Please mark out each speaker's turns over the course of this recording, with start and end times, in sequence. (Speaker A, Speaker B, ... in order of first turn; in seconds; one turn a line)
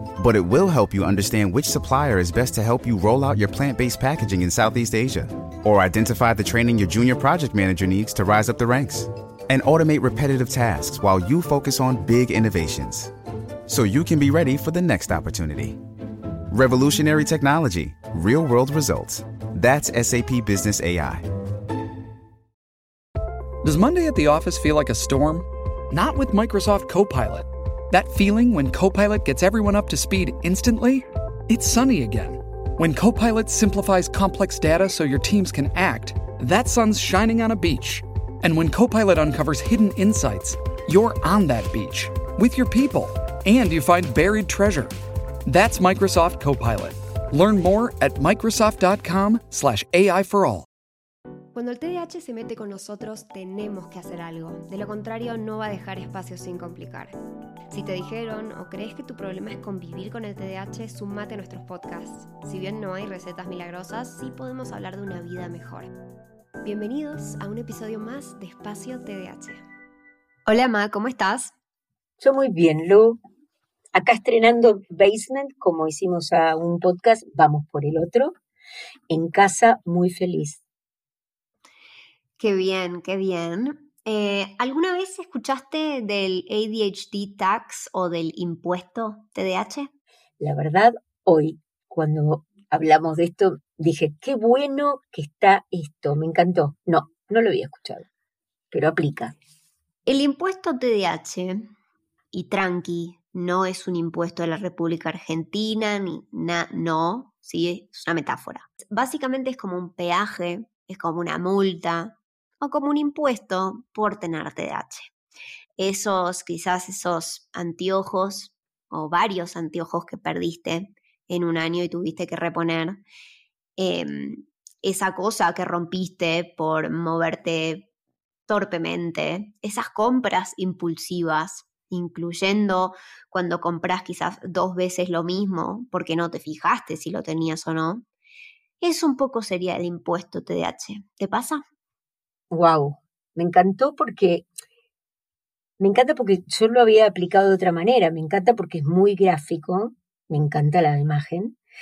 Speaker A: 0.2-13.1
Speaker A: 13.7-15.8
Speaker A: 16.5-21.2
Speaker B: 23.6-44.9
Speaker B: 45.5-50.7
Speaker C: 51.5-57.1
Speaker C: 57.7-65.9
Speaker C: 66.6-69.6
Speaker C: 70.4-71.5
Speaker D: 72.2-73.2
Speaker D: 73.9-78.3
Speaker D: 79.1-80.6
Speaker C: 82.4-89.9
Speaker D: 90.4-98.0
Speaker D: 98.7-99.3
Speaker C: 100.0-101.7
Speaker C: 102.3-115.1
Speaker C: 115.8-123.0
Speaker C: 123.8-127.9
Speaker C: 128.5-138.0
Speaker C: 138.8-141.6
Speaker D: 142.5-144.5
Speaker D: 145.8-151.6